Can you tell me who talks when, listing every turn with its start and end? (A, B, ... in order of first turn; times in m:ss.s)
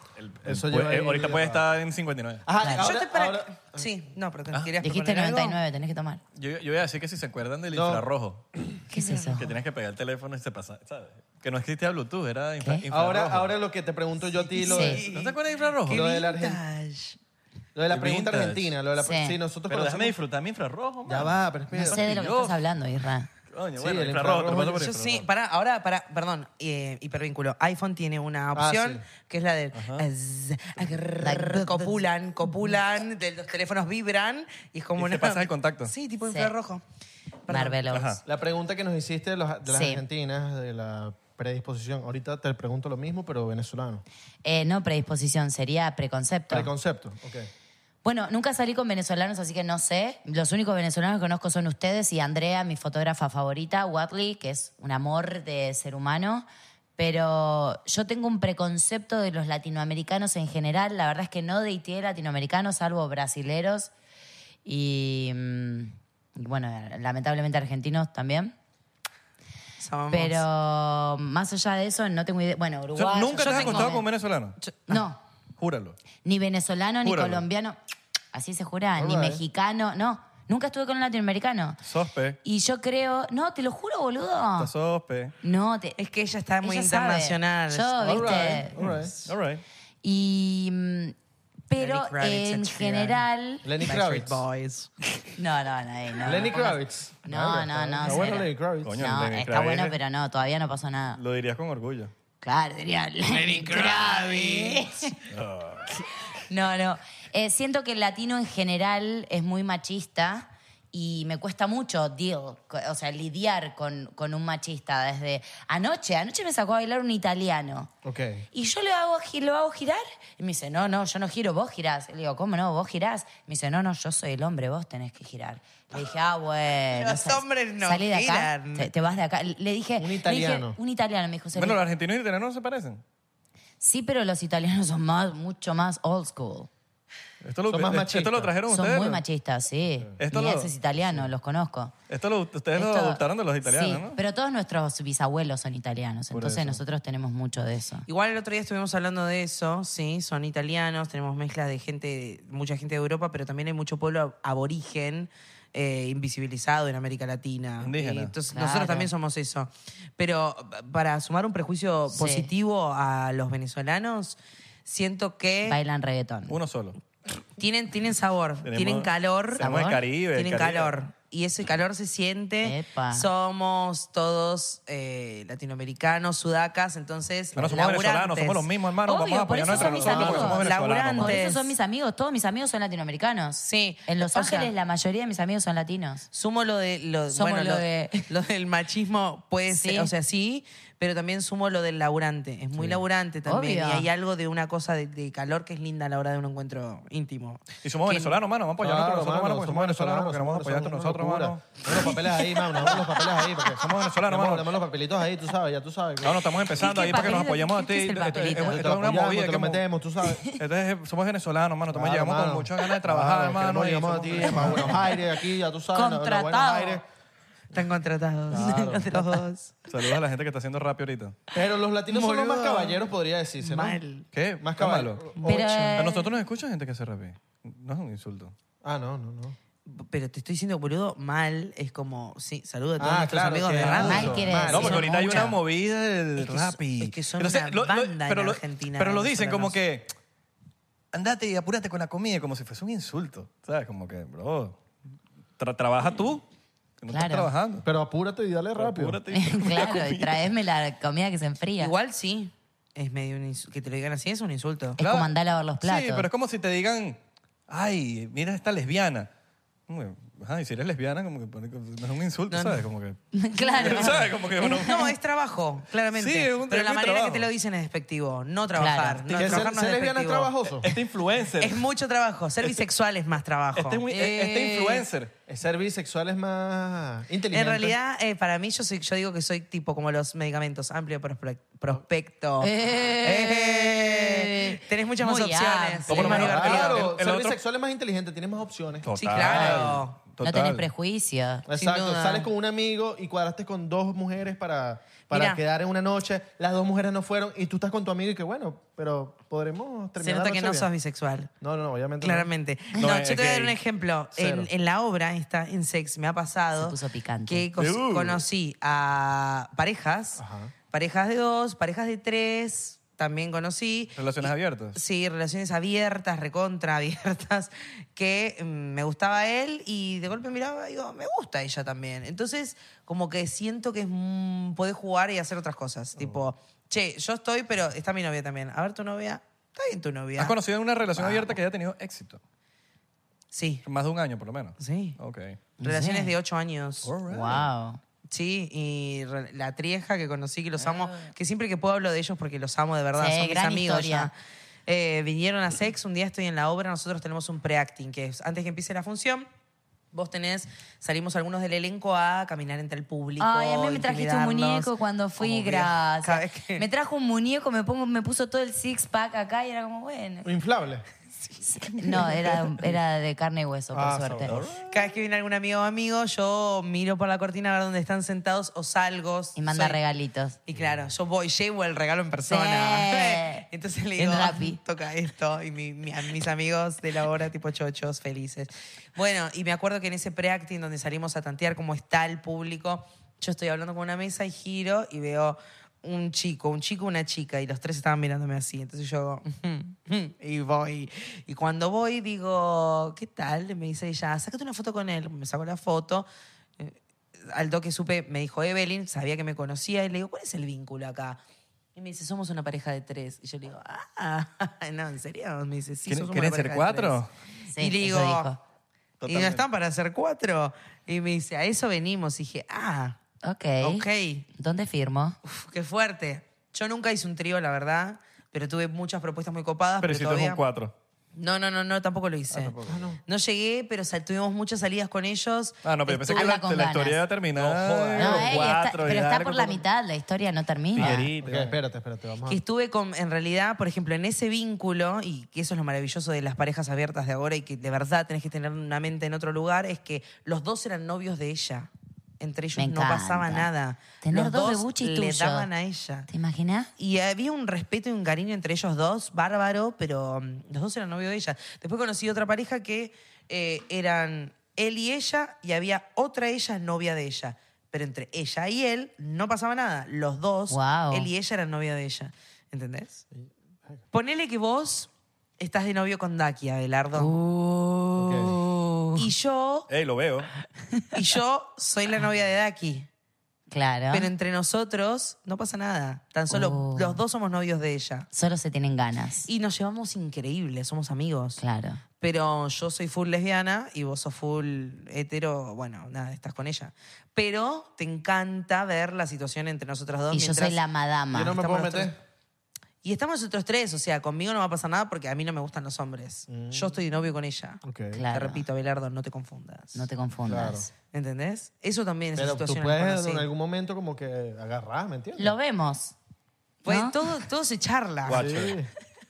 0:00.2-0:02.4 A
0:00.4-0:01.6 B
0:02.4-0:03.9 B
0:02.6-0:02.8 C
0:02.8-0:05.6 D
0:04.8-0:06.2 C
0:06.3-0:08.4 A
0:07.7-0:08.1 B
0:08.9-0:09.4 D
0:08.9-0:09.5 C
0:09.4-0:13.5 A
0:12.6-0:12.8 C
0:12.9-0:15.0 B
0:14.5-0:17.2 D
0:14.7-0:15.0 C
0:15.0-0:16.1 A
0:15.9-0:16.6 B
0:17.7-0:20.2 B
0:17.9-0:18.7 A
0:19.0-0:19.4 C
0:19.7-0:22.6 A
0:21.0-0:22.0 B
0:21.8-0:23.3 C
0:23.5-0:25.2 A
0:23.8-0:24.8 B
0:24.6-0:36.8 D
0:28.5-0:29.0 B
0:29.7-0:30.0 A
0:31.2-0:32.0 C
0:35.0-0:35.9 A
0:37.5-0:37.8 D
0:37.5-0:38.2 C
0:37.9-0:38.2 A
0:38.2-0:44.0 B
0:39.7-0:40.0 C
0:44.4-0:46.7 C
0:46.5-0:47.5 B
0:48.0-0:56.4 C
0:57.0-1:03.9 C
1:04.6-1:08.5 C
1:09.8-1:10.4 D
1:10.1-1:14.0 C
1:13.0-1:14.6 A
1:13.4-1:14.0 D
1:14.9-1:15.2 C
1:15.6-1:16.0 A
1:16.2-1:17.8 C
1:17.0-1:17.4 A
1:18.3-1:21.8 C
1:19.0-1:19.4 B
1:21.8-1:22.4 A
1:22.4-1:24.7 C
1:24.6-1:25.3 A
1:25.4-1:26.0 C
1:26.0-1:28.6 D
1:26.6-1:28.7 C
1:28.0-1:29.1 B
1:28.8-1:29.6 A
1:30.0-1:31.1 C
1:31.7-1:33.6 C
1:31.8-1:33.2 D
1:33.6-1:34.4 B
1:33.8-1:34.9 D
1:35.4-1:41.2 C
1:36.2-1:39.0 B
1:38.8-1:40.0 A
1:41.2-1:42.1 A
1:42.4-1:45.1 C
1:43.4-1:44.8 D
1:45.3-1:46.0 A
1:46.5-1:57.9 C
1:58.0-1:58.4 B
1:58.5-2:11.8 C
2:06.9-2:08.9 D
2:10.0-2:10.8 B
2:11.5-2:13.0 A
2:13.8-2:16.7 C
2:17.4-2:19.2 A
2:17.7-2:18.5 B
2:18.7-2:21.9 C
2:20.2-2:20.7 A
2:22.1-2:24.2 A
2:22.7-2:28.0 C
2:26.3-2:26.8 A
2:28.1-2:45.8 D
2:37.8-2:38.3 A
2:38.5-2:39.1 C
2:42.1-2:42.5 C
2:45.6-2:46.6 C
2:46.5-2:47.0 A
2:47.6-2:58.7 D
2:48.6-2:50.9 A
2:49.6-2:50.0 C
2:52.6-2:53.3 C
2:57.5-3:01.4 A
2:59.0-3:00.6 C
2:59.7-3:01.7 D
3:01.2-3:06.3 C
3:03.6-3:04.7 D
3:06.3-3:18.4 D
3:07.3-3:08.3 C
3:09.7-3:10.1 C
3:13.4-3:14.1 C
3:17.8-3:21.7 A
3:18.8-3:26.5 B
3:22.3-3:23.6 C
3:23.7-3:24.7 A
3:26.2-3:29.8 A
3:26.8-3:28.8 C
3:28.6-3:30.4 B
3:30.5-3:35.0 A
3:31.9-3:37.0 B
3:34.6-3:35.0 C
3:35.9-3:37.0 C
3:37.7-3:39.8 D
3:38.5-3:39.4 B
3:39.9-3:41.4 A
3:41.5-3:44.0 B
3:42.1-3:43.0 D
3:43.6-3:44.3 D
3:44.3-3:45.2 A
3:44.6-3:45.9 B
3:45.4-3:46.3 C
3:45.9-3:48.5 A
3:48.8-3:49.6 B
3:49.8-3:55.5 D
3:53.0-3:55.0 B
3:53.8-4:00.1 A
3:54.0-3:55.6 C
3:56.4-3:59.8 D
4:01.1-4:04.8 A
4:05.6-4:06.4 A
4:07.0-4:07.8 A
4:07.1-4:07.5 C
4:07.8-4:09.2 B
4:08.8-4:10.5 A
4:09.3-4:11.9 C
4:11.8-4:15.0 D
4:15.0-4:16.3 C
4:15.0-4:19.3 A
4:19.9-4:25.1 A
4:22.5-4:22.8 D
4:23.3-4:25.1 C
4:24.6-4:30.5 D
4:26.1-4:27.5 A
4:28.8-4:29.2 C
4:29.2-4:29.7 A
4:29.4-4:30.9 B
4:30.8-4:31.8 A
4:31.6-4:35.1 D
4:33.7-4:35.3 A
4:35.5-4:38.0 B
4:37.5-4:47.0 D
4:42.6-4:46.7 C
4:46.1-4:47.6 A
4:46.2-4:50.0 B
4:49.0-4:50.8 A
4:49.2-4:50.2 D
4:50.4-4:51.6 C
4:51.7-5:00.9 B
4:51.8-4:52.5 D
4:55.3-4:55.6 D
5:00.2-5:01.5 D
5:01.6-5:02.5 B
5:02.2-5:10.4 D
5:03.0-5:03.8 A
5:04.4-5:04.7 B
5:06.8-5:07.7 C
5:07.8-5:08.4 A
5:10.4-5:10.7 B
5:10.9-5:30.6 D
5:14.1-5:15.0 A
5:30.4-5:32.4 A
5:31.1-5:31.6 D
5:33.5-5:33.8 D
5:33.8-5:35.6 A
5:34.8-5:35.2 D
5:35.8-5:37.1 D
5:35.8-5:36.3 C
5:37.0-5:37.7 A
5:37.2-5:38.0 C
5:38.3-5:44.3 D
5:43.2-5:44.3 C
5:44.9-5:49.5 D
5:50.1-5:56.8 D
5:53.4-6:00.5 C
6:00.4-6:01.0 B
6:01.7-6:04.5 C
6:03.9-6:04.7 B
6:04.5-6:04.8 A
6:04.9-6:10.0 D
6:09.6-6:10.6 C
6:10.7-6:36.3 D
6:12.5-6:13.6 C
6:14.2-6:14.8 C
6:36.8-6:41.4 D
6:42.0-6:47.2 D
6:46.0-6:47.3 A
6:47.7-6:48.6 C
6:47.8-6:48.5 D
6:49.2-6:49.6 A
6:49.3-6:53.2 D
6:53.4-6:55.4 C
6:53.8-6:54.5 D
6:55.4-7:00.6 D
7:00.0-7:00.9 A
7:01.4-7:02.7 D
7:02.5-7:03.0 A
7:02.8-7:03.2 B
7:03.2-7:05.8 D
7:05.8-7:09.8 A
7:06.0-7:07.2 C
7:07.6-7:08.6 B
7:08.2-7:11.3 C
7:10.9-7:11.8 A
7:11.0-7:12.6 B
7:12.4-7:26.3 D
7:22.8-7:23.7 C
7:24.2-7:25.7 C
7:26.3-7:26.9 C
7:27.0-7:43.2 D
7:40.7-7:41.3 C
7:43.3-7:44.0 B
7:44.1-7:47.3 D
7:47.2-7:49.2 C
7:48.2-7:48.6 B
7:49.2-7:49.9 D
7:49.9-7:50.5 A
7:51.1-7:53.1 D
7:53.7-7:54.3 C
7:54.1-7:58.3 D
7:56.5-7:57.2 C
7:58.3-7:59.5 C
7:59.5-8:01.6 D
8:01.6-8:02.0 C
8:02.2-8:10.8 D
8:10.3-8:11.6 C
8:11.3-8:12.2 B
8:11.5-8:12.1 D
8:13.0-8:20.0 D
8:16.5-8:17.0 B
8:17.8-8:18.2 B
8:18.1-8:18.6 C
8:19.9-8:20.9 C
8:20.5-8:20.9 B
8:21.1-8:23.5 D
8:22.4-8:25.6 B
8:25.4-8:26.1 C
8:26.8-8:28.4 D
8:26.8-8:27.2 C
8:28.2-8:28.8 A
8:28.3-8:28.9 B